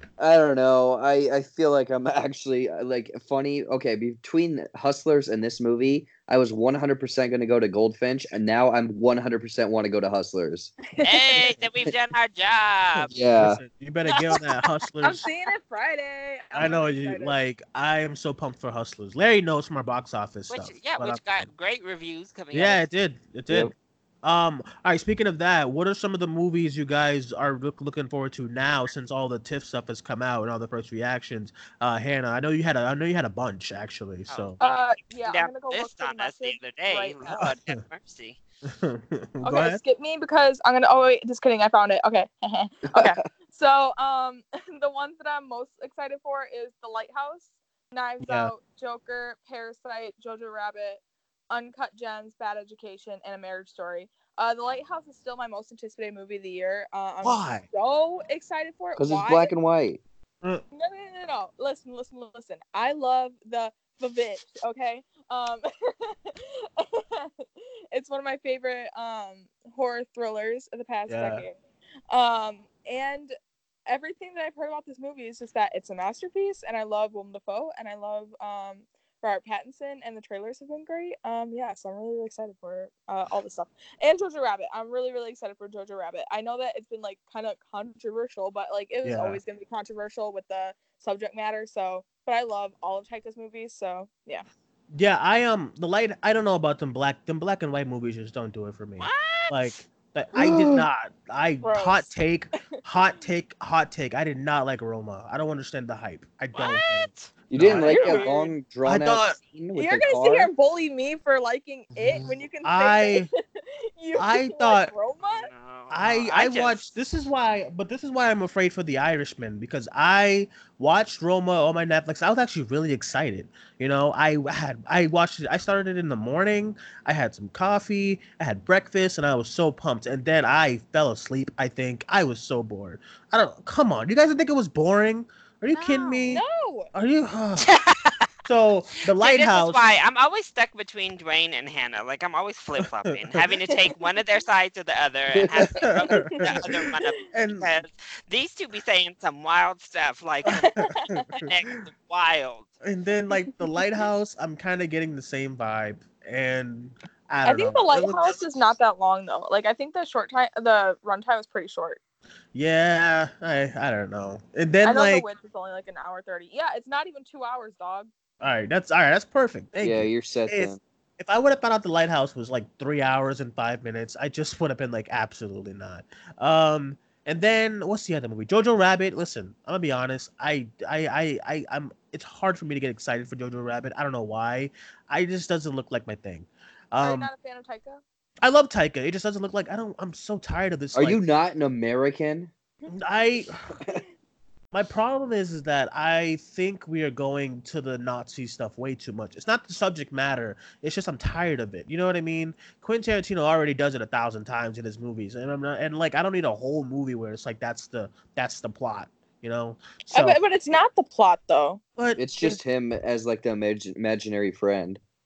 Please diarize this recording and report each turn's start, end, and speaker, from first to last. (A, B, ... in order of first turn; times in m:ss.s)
0:00.2-0:10.7 A
0:11.0-0:11.4 B
0:11.0-0:13.1 C
0:12.9-0:15.2 D
0:13.1-0:13.6 A
0:15.0-0:17.4 B
0:16.5-0:21.5 D
0:20.5-0:22.8 C
0:22.5-0:23.7 D
0:24.2-0:34.6 D
0:34.3-0:38.4 C
0:34.6-0:37.5 B
0:37.4-0:37.8 D
0:38.6-0:39.8 D
0:39.4-0:59.5 B
0:42.9-0:43.2 A
0:48.2-0:48.5 D
0:57.2-0:57.6 D
0:59.0-1:00.0 A
1:00.7-1:11.5 B
1:11.1-1:11.4 D
1:12.1-1:13.3 B
1:13.9-1:34.4 B
1:29.0-1:29.4 D
1:34.9-1:48.3 D
1:39.0-1:39.8 C
1:40.4-1:40.9 A
1:41.6-1:42.1 B
1:46.5-1:48.2 C
1:47.5-1:50.5 A
1:47.8-1:48.5 B
1:48.8-1:49.4 D
1:49.7-1:55.5 B
1:52.0-1:53.3 D
1:54.2-1:54.9 D
1:55.3-1:56.8 C
1:55.9-2:17.7 D
2:15.7-2:16.9 B
2:17.6-2:18.3 C
2:18.4-2:19.8 D
2:19.2-2:32.7 C
2:23.1-2:23.4 D
2:25.3-2:25.6 A
2:25.8-2:26.7 D
2:26.1-2:26.6 B
2:27.3-2:27.7 D
2:30.5-2:31.4 B
2:30.5-2:31.5 D
2:32.8-2:38.5 D
2:37.4-2:42.0 B
2:42.5-2:45.2 D
2:44.8-2:48.1 B
2:48.4-3:07.3 D
2:49.8-2:50.8 A
3:07.0-3:08.0 B
3:08.4-3:11.2 D
3:10.9-3:12.5 A
3:12.9-3:13.7 D
3:14.7-3:30.4 D
3:30.1-3:31.8 B
3:32.0-3:32.6 D
3:32.2-3:35.0 A